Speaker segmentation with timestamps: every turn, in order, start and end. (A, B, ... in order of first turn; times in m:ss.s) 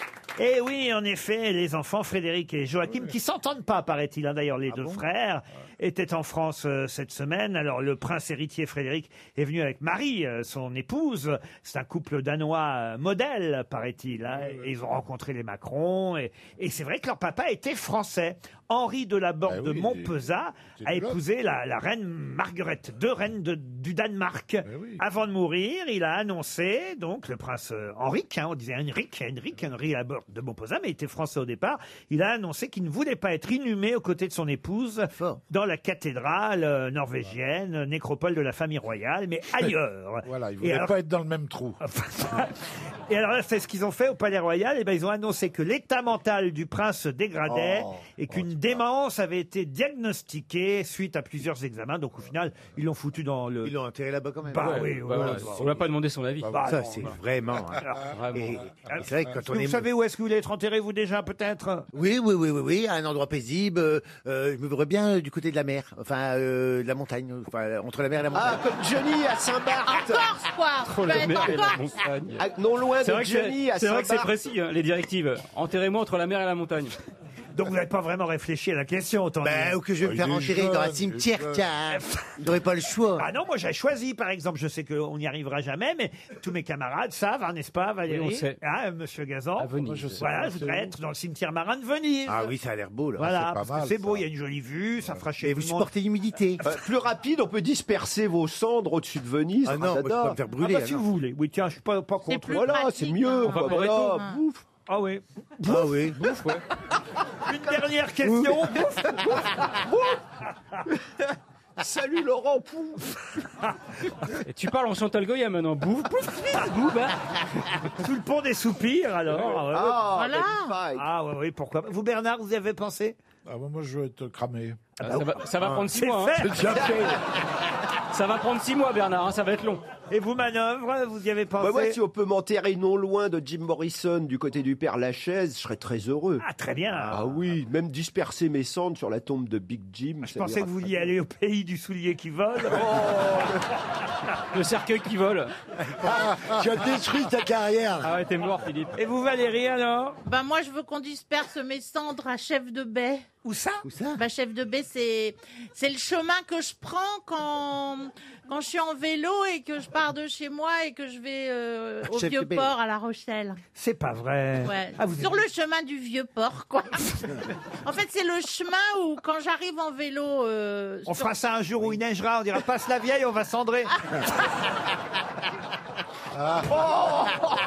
0:00.4-0:40.9 A
0:14.4-0:14.6 B
0:19.4-0:20.2 B
0:20.8-0:21.2 B
0:24.6-0:25.0 B
0:35.1-0:35.4 C
0:40.2-0:41.8 B
0:41.8-0:53.7 A
0:47.5-0:48.0 C
0:53.6-0:55.4 C
0:54.5-0:55.7 A
0:54.6-0:56.8 D
0:56.5-0:57.2 A
0:56.7-0:59.9 C
0:57.8-0:58.1 A
0:58.1-0:58.6 D
0:58.8-1:01.9 A
1:01.9-1:08.6 C
1:08.3-1:10.3 E
1:09.8-1:11.9 F
1:10.8-1:12.4 D
1:12.4-1:14.3 E
1:13.0-1:16.9 D
1:17.5-1:19.8 A
1:19.4-1:23.3 C
1:20.0-1:21.7 B
1:21.9-1:22.2 A
1:23.2-1:32.5 A
1:28.1-1:28.6 D
1:29.6-1:30.2 D
1:29.8-1:30.9 B
1:32.3-1:33.3 C
1:33.2-1:35.9 A
1:33.2-1:34.2 B
1:35.4-1:36.6 C
1:36.6-1:40.4 E
1:39.6-1:41.0 C
1:40.6-1:42.8 A
1:42.3-1:44.4 F
1:42.5-1:44.6 E
1:43.5-1:44.2 D
1:44.9-1:46.4 A
1:45.6-1:46.2 C
1:46.2-1:46.6 D
1:47.5-1:49.4 A
1:49.2-1:50.2 E
1:51.8-1:53.1 E
1:54.4-1:57.2 D
1:57.9-2:00.0 A
1:59.7-2:01.0 E
2:00.0-2:00.8 F
2:00.9-2:03.2 A
2:03.5-2:05.0 B
2:05.0-2:06.5 D
2:05.8-2:06.8 A
2:06.5-2:06.9 B
2:06.7-2:07.0 E
2:08.1-2:09.8 D
2:10.1-2:12.0 A
2:11.6-2:16.4 E
2:16.4-2:17.2 A
2:17.0-2:20.9 E
2:20.2-2:23.5 A
2:22.7-2:23.6 E
2:24.5-2:25.5 D
2:26.0-2:28.1 G
2:28.0-2:28.9 D
2:28.9-2:30.2 A
2:30.2-2:33.2 F
2:33.4-2:33.8 A
2:33.8-2:34.2 C
2:34.1-2:43.6 F
2:42.0-2:42.7 C
2:43.8-2:45.4 A
2:44.6-2:51.3 F
2:51.0-2:54.0 A
2:56.3-2:56.8 B